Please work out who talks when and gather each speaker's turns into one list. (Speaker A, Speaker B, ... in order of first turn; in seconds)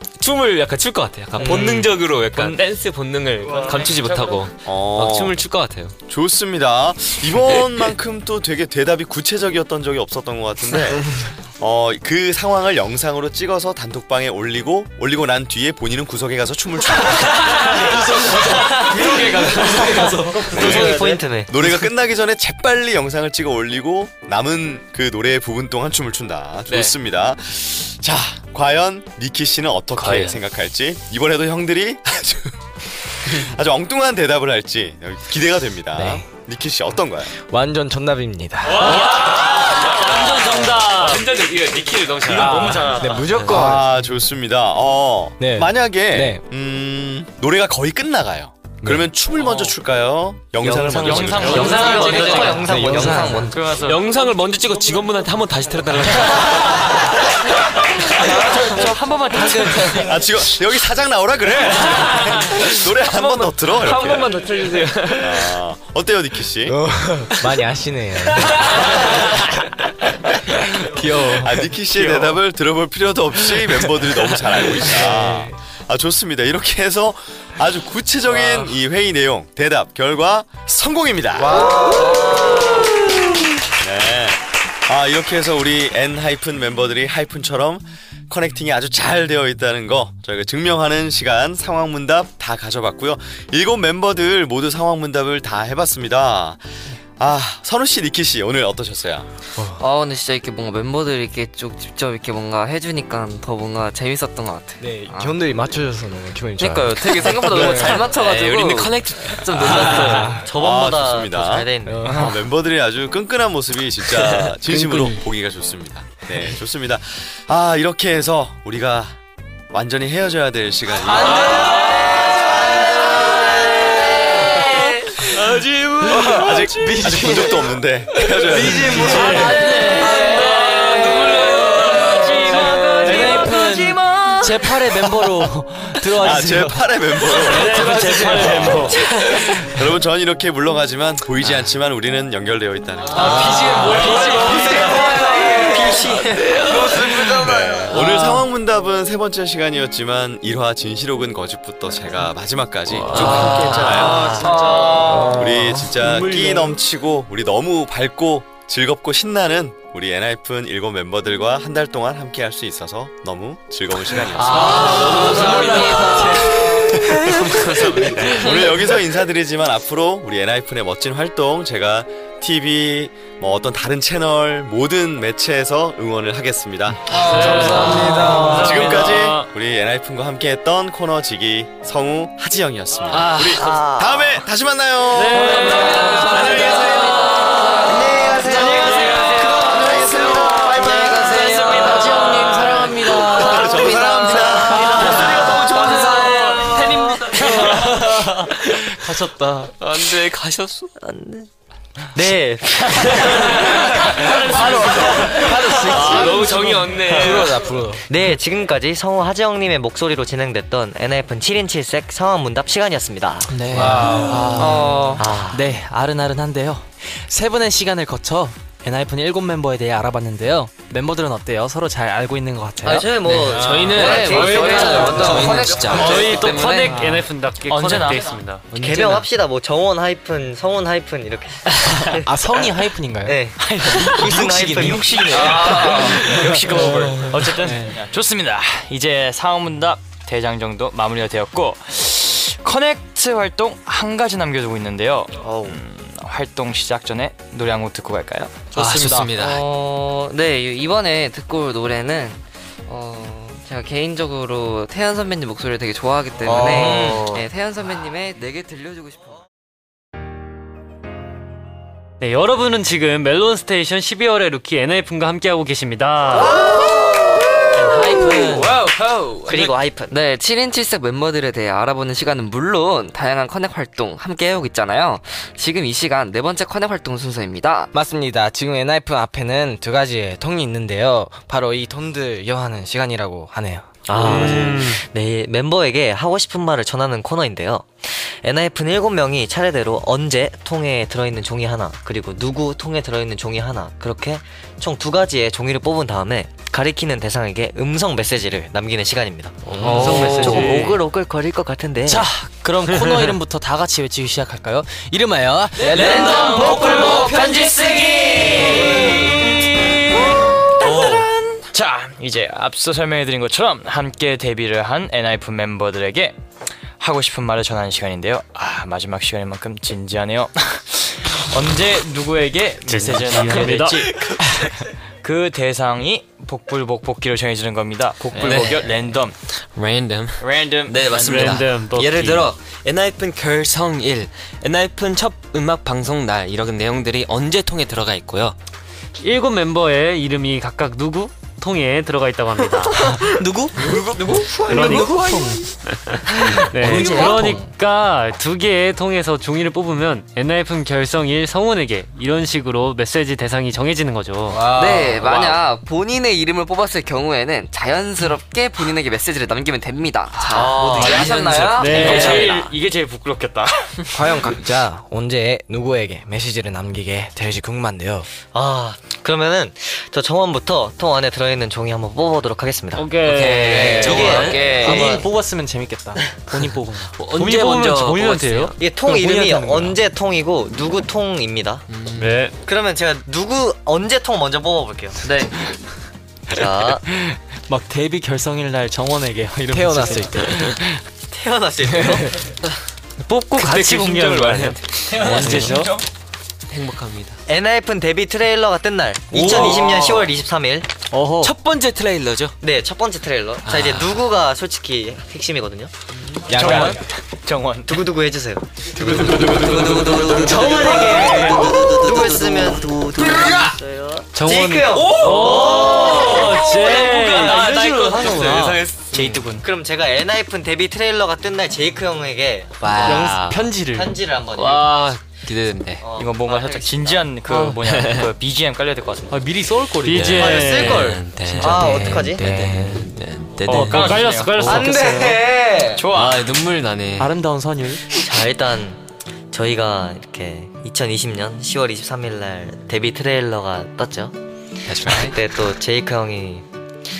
Speaker A: 0.2-5.9, 17.4-21.2, 26.7-26.9, 38.7-43.7, 51.4-52.8, 53.5-57.2, 61.8-65.6, 68.3-68.8, 72.0-72.3, 107.6-110.4, 121.2-126.8, 129.3-133.5, 143.2-145.8, 146.4-147.4, 152.9-156.7, 164.4-166.5, 167.4-168.5, 185.6-186.9, 191.4-193.0, 194.7-199.1, 199.8-200.9, 203.1-207.7, 213.7-214.7, 222.9-226.3, 248.7-249.7, 268.6-269.6, 284.2-284.9, 305.8-309.3, 328.3-338.6, 343.9-344.5, 355.2-355.6, 360.5-362.5, 373.2-374.8, 377.2-378.7, 381.9-382.4, 393.5-396.0, 396.7-397.4, 399.3-400.3, 401.4-402.6, 403.6-404.2, 409.0-410.6, 411.3-412.5, 413.2-413.7, 414.9-419.5, 422.8-423.7, 424.5-426.1, 427.8-428.3, 430.1-434.3, 436.0-437.3, 444.9-445.4
Speaker B: 1.4-1.8, 20.3-21.6, 50.6-53.6, 110.3-112.2, 123.0-123.4, 138.9-139.4, 144.6-146.9, 153.1-155.2, 183.5-184.4, 187.8-189.3, 194.3-195.5, 201.0-201.5, 202.1-204.1, 208.1-213.6, 215.2-215.7, 222.8-225.9, 228.7-232.3, 233.2-236.0, 245.4-245.8, 256.4-257.4, 269.4-270.1, 284.1-302.3, 360.5-361.4, 368.4-373.1, 374.0-375.2, 378.8-381.8, 382.6-385.2, 386.5-387.0, 391.3-392.4, 397.5-400.9, 402.6-405.9, 407.9-416.4, 419.6-422.9, 423.9-424.9, 426.0-427.2, 430.6-432.5, 438.1-444.4, 445.0-446.7
Speaker C: 1.4-2.6, 3.4-4.5, 38.8-41.1, 42.2-43.3, 50.9-54.0, 58.2-60.2, 132.1-133.3, 137.6-138.8, 204.1-205.2, 227.7-228.5, 233.6-248.8, 308.6-316.4, 317.0-329.4, 330.4-331.6, 361.9-364.0, 406.5-408.0, 419.1-419.6, 426.1-429.4, 433.7-434.9, 435.9-436.5
Speaker D: 4.6-5.4, 6.1-18.2, 20.5-32.5, 33.2-37.3, 43.4-51.9, 59.9-64.4, 65.2-66.8, 71.3-81.9, 83.8-96.6, 97.2-99.3, 110.4-119.2, 119.7-122.7, 126.2-129.3, 136.2-143.5, 147.3-154.6, 155.1-165.5, 166.5-192.0, 193.1-196.0
Speaker E: 17.8-20.6, 59.4-59.7, 126.8-127.4, 128.6-129.6, 132.9-136.9, 137.9-138.4, 143.2-145.2, 164.5-166.4, 197.8-198.2, 198.9-199.7, 205.3-206.1, 213.5-215.0, 215.5-223.1, 231.9-235.1, 236.2-238.0, 267.7-268.8, 302.1-307.0, 323.3-323.6, 343.0-345.6, 346.4-347.7, 374.1-380.0, 387.2-391.0, 395.1-396.0, 401.1-401.6, 406.6-406.9, 410.3-411.8, 416.1-418.8, 423.0-424.1, 427.5-427.8, 429.3-431.0, 433.7-434.1, 434.6-435.4, 437.2-438.0
Speaker F: 18.2-20.0, 35.9-36.3, 37.3-39.0, 42.4-43.9, 45.4-46.4, 48.8-49.1, 52.6-53.6, 66.7-69.7, 70.6-72.0, 74.8-75.5, 81.7-82.1, 99.6-99.8, 104.8-108.1, 109.4-110.5, 111.8-112.3, 114.8-115.1, 121.1-122.0, 126.1-129.6, 143.2-146.0, 146.7-148.2, 153.3-155.6, 164.4-168.9, 177.1-178.9, 195.8-196.6, 197.4-198.1, 204.6-208.0, 213.7-214.8, 223.4-225.7, 237.0-237.2, 277.9-284.0, 299.8-300.2, 305.8-307.4, 344.4-345.5, 346.9-347.3, 354.5-355.3, 364.1-368.3, 373.7-374.4, 389.7-390.8, 391.9-392.4, 406.5-407.1, 409.0-409.7, 432.5-433.0
Speaker G: 30.0-30.4, 40.3-41.2, 51.5-52.7, 129.0-132.8, 137.4-139.0, 177.1-179.5, 183.1-183.7, 185.1-187.6, 188.7-189.7, 192.9-193.2, 224.8-225.3, 225.8-228.7, 262.2-266.6, 284.1-284.9, 299.7-301.0, 322.9-324.4, 331.1-332.5, 339.2-343.2, 344.5-345.3, 345.9-354.8, 361.0-362.7, 372.9-374.4, 382.2-382.5, 393.2-395.9, 414.3-417.7, 430.0-431.2, 433.7-435.2
Speaker H: 99.8-105.4, 106.6-110.3, 154.6-155.2, 190.7-195.1, 214.3-215.2, 223.9-227.0, 249.2-259.4, 270.1-277.9, 299.9-300.7, 354.7-362.5, 373.6-375.2, 385.2-385.5